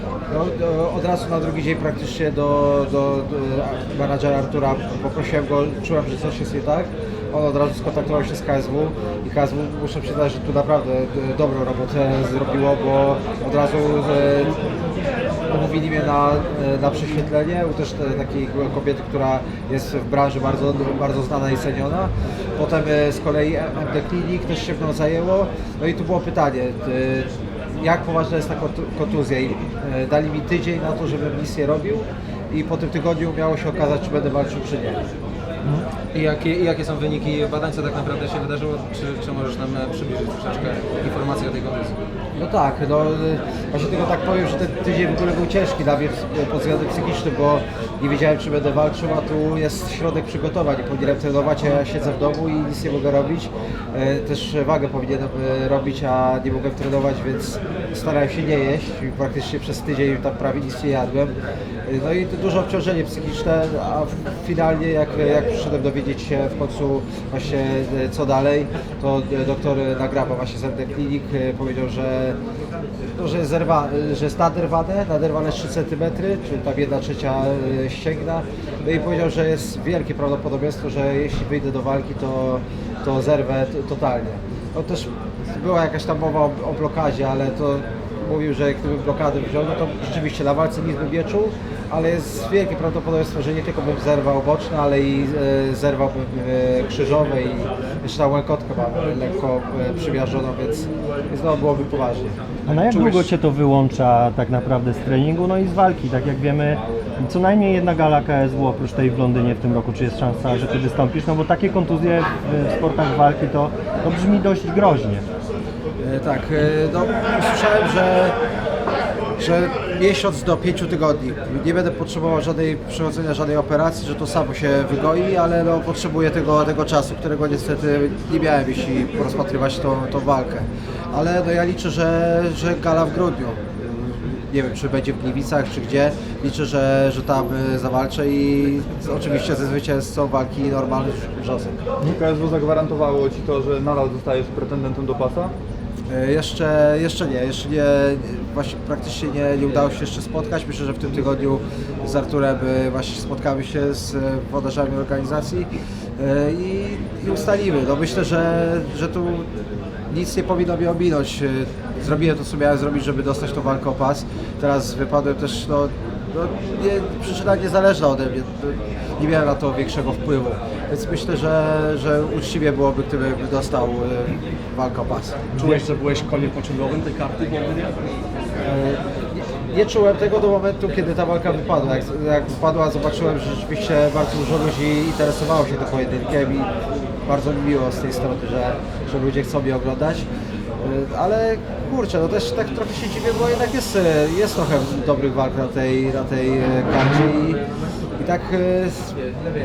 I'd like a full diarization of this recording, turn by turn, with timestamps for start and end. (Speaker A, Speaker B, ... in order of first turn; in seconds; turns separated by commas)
Speaker A: 0.3-14.6, Speaker A: 15.5-35.0, Speaker B: 36.1-42.0, Speaker A: 42.4-72.4, Speaker A: 73.2-102.3, Speaker C: 102.7-115.2, Speaker A: 116.0-118.3, Speaker A: 119.4-141.8, Speaker D: 142.1-145.5, Speaker A: 146.1-159.5, Speaker A: 160.1-175.4, Speaker E: 175.5-178.0, Speaker A: 178.6-186.7, Speaker A: 187.3-190.3, Speaker A: 190.8-197.6, Speaker A: 198.2-199.2